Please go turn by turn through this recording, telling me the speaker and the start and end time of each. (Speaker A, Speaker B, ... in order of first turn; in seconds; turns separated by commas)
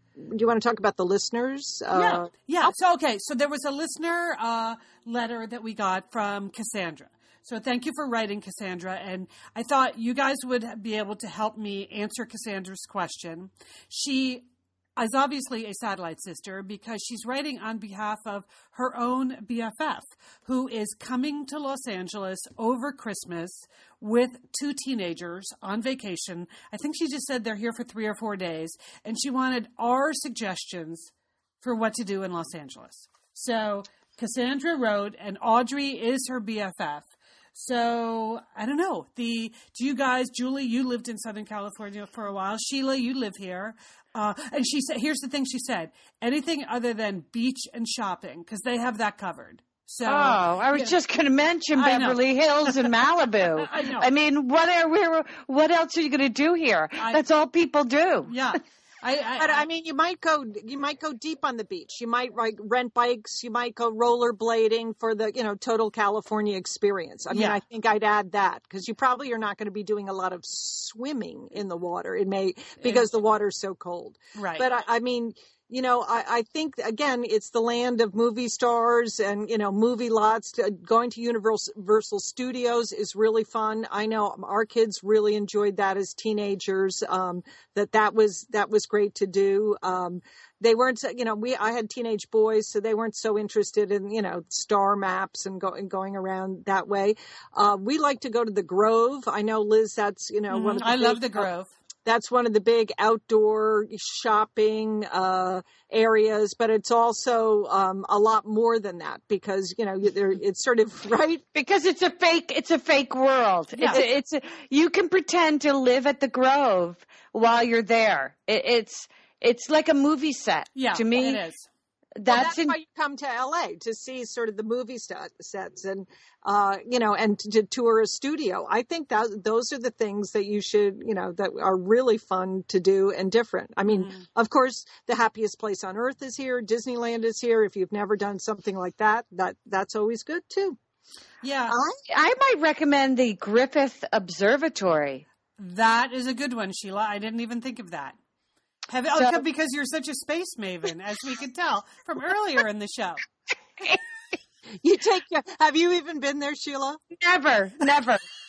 Speaker A: 0.1-2.7, Speaker B: 1.9-14.4, Speaker B: 15.0-51.0, Speaker C: 50.0-58.3, Speaker B: 51.7-52.8, Speaker B: 53.6-54.1, Speaker B: 58.2-59.6, Speaker A: 59.4-101.5, Speaker B: 67.3-67.6, Speaker B: 74.3-74.7, Speaker B: 100.5-101.7, Speaker A: 102.0-111.4, Speaker C: 111.5-121.4, Speaker B: 113.7-114.0, Speaker B: 120.7-121.7, Speaker C: 122.2-122.7, Speaker A: 122.2-140.8, Speaker B: 133.9-134.2, Speaker B: 141.4-141.8, Speaker A: 141.7-142.0, Speaker C: 142.1-145.2, Speaker B: 145.6-148.2, Speaker B: 148.9-153.2, Speaker C: 149.2-149.4, Speaker A: 154.8-157.0, Speaker C: 157.1-158.2